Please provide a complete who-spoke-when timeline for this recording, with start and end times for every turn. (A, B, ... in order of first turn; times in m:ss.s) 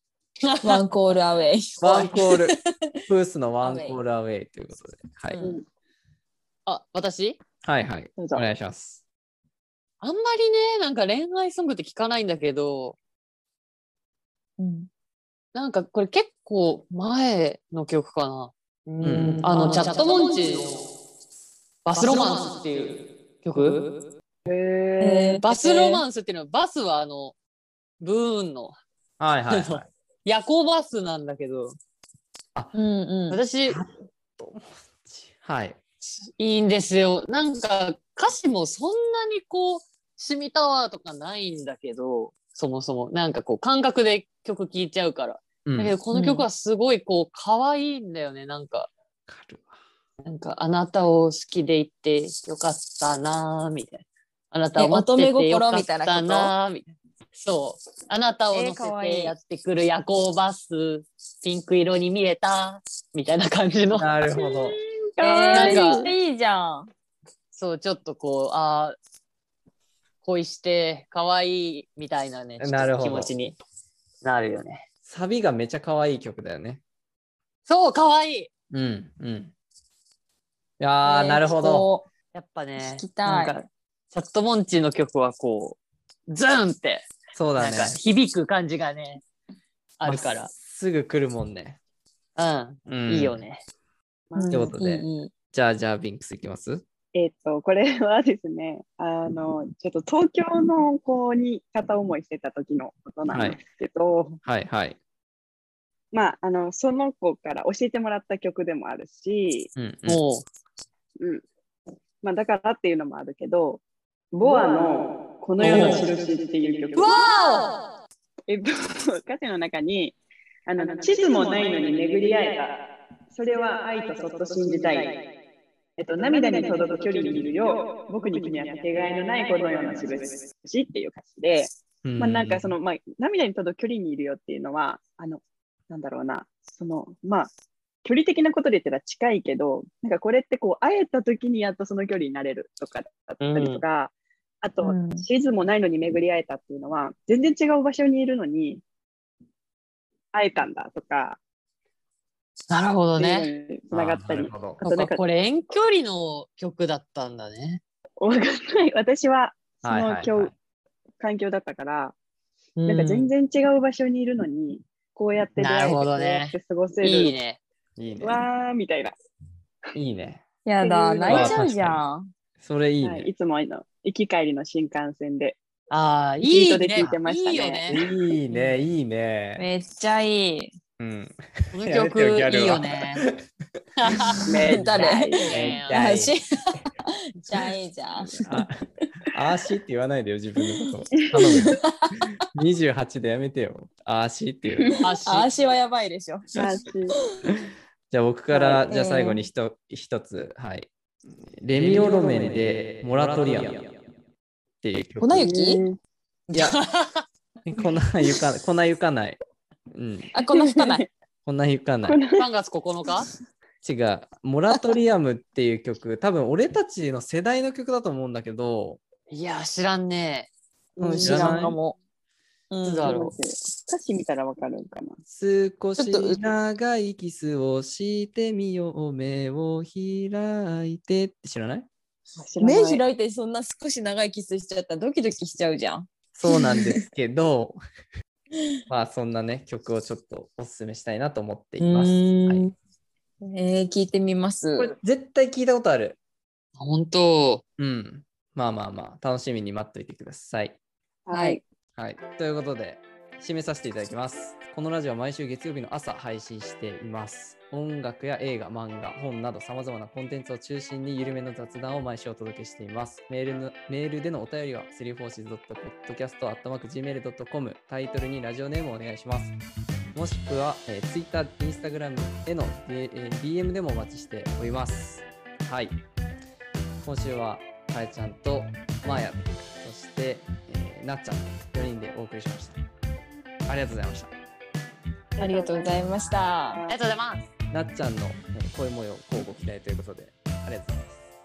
0:00.4-0:00.8 A
0:00.6-0:02.6 B
0:01.8-0:02.6 C
0:03.1-0:05.5 C
0:03.6-0:04.0 B
0:06.7-0:07.4 A
0:07.6-0:09.0 C
0:08.2-0:08.4 D
0:10.0-0:13.0 A
0:14.6-0:14.9 B
0:15.6-0:20.9 A
0:19.0-0:19.4 C
0:21.8-0:24.0 A
0:24.5-0:25.6 D
0:25.0-0:26.0 B
0:25.4-0:27.4 A
0:28.0-0:28.8 A
0:29.2-0:29.9 C
0:29.5-0:31.8 A
0:32.7-0:33.4 B
0:33.3-0:33.8 A
0:33.7-0:35.8 C
0:36.4-0:48.9 A
0:45.7-0:46.0 C
0:46.1-0:46.5 B
0:49.3-0:49.8 C
0:50.3-1:04.1 A
0:54.8-0:56.5 B
0:58.5-0:59.4 B
1:03.9-1:04.8 C
1:04.3-1:06.1 D
1:05.2-1:06.9 B
1:05.5-1:06.1 A
1:07.5-1:09.0 A
1:10.2-1:13.6 A
1:12.6-1:13.3 C
1:14.2-1:14.8 A
1:15.1-1:16.8 C
1:17.7-1:18.5 A
1:18.7-1:19.5 C
1:20.8-1:21.9 C
1:21.0-1:22.1 B
1:22.3-1:25.8 A
1:22.8-1:23.6 B
1:26.3-1:29.2 A
1:27.4-1:28.0 C
1:30.0-1:30.5 A
1:30.0-1:31.8 C
1:32.4-1:33.6 A
1:32.9-1:33.4 C
1:34.3-1:34.7 D
1:34.4-1:35.3 B
1:34.5-1:36.8 C
1:34.8-1:35.1 A
1:37.1-1:44.4 D
1:43.3-1:43.6 C
1:44.4-1:45.0 C
1:46.1-1:49.7 D
1:49.8-1:50.2 C
1:50.1-1:50.4 A
1:52.2-1:53.8 D
1:54.3-1:57.2 D
1:55.6-1:56.0 A
1:57.0-1:57.8 A
1:58.5-2:05.2 D
2:06.0-2:17.5 D
2:12.0-2:12.8 C
2:18.0-2:28.8 D
2:23.4-2:23.8 A
2:24.8-2:25.3 B
2:30.3-2:31.4 D
2:32.7-2:33.5 A
2:33.2-2:35.2 D
2:33.9-2:34.8 C
2:34.8-2:37.8 A
2:38.2-2:40.5 D
2:39.8-2:40.5 C
2:41.2-2:42.1 D
2:42.8-2:43.3 A
2:42.9-2:47.3 D
2:45.6-2:47.6 A
2:48.0-2:48.4 C
2:48.2-2:49.2 D
2:49.9-2:50.4 C
2:50.6-2:52.3 B
2:50.8-2:51.5 D
2:51.3-2:52.0 C
2:52.6-2:53.3 C
2:53.0-2:55.6 D
2:55.9-2:58.0 A
2:56.4-2:57.9 D
2:57.9-2:59.6 C
2:59.6-3:00.7 B
3:01.0-3:03.4 C
3:01.7-3:03.2 A
3:04.0-3:04.4 A
3:04.4-3:05.7 D
3:04.7-3:08.6 B
3:05.4-3:06.0 A
3:05.5-3:06.4 C
3:08.4-3:11.8 C
3:11.8-3:12.3 B
3:12.5-3:15.0 C
3:15.0-3:15.5 A
3:15.2-3:16.5 B
3:16.6-3:17.2 D
3:18.1-3:20.9 C
3:18.5-3:18.8 D
3:18.9-3:19.4 B
3:21.6-3:24.0 C
3:24.8-3:25.5 C
3:25.2-3:25.8 B
3:25.4-3:26.0 D
3:26.5-3:27.2 A
3:27.7-3:29.4 C
3:29.9-3:30.3 C
3:30.3-3:31.0 B
3:30.5-3:31.1 D
3:31.4-3:32.2 C
3:32.0-3:32.5 D
3:32.4-3:33.3 A
3:33.8-3:39.0 C
3:39.3-3:40.5 A
3:41.0-3:41.7 D
3:41.0-3:42.0 B
3:41.2-3:41.8 C
3:42.7-3:43.2 B
3:42.8-3:43.4 A
3:43.0-3:45.2 D
3:45.3-3:51.9 C
3:46.0-3:46.4 B
3:52.4-3:53.0 D
3:52.6-3:57.0 B
3:56.3-3:57.8 C
3:58.9-4:02.7 C
4:01.8-4:02.7 A
4:03.4-4:04.9 B
4:04.8-4:06.2 C
4:06.8-4:07.6 A
4:07.8-4:10.8 C
4:11.3-4:11.6 D
4:11.3-4:11.6 B
4:12.0-4:29.6 C
4:30.1-4:36.0 C
4:37.0-4:42.8 C
4:43.7-4:44.3 C
4:45.4-4:47.0 D
4:45.4-4:46.8 B
4:46.9-4:47.4 A
4:47.7-4:51.3 C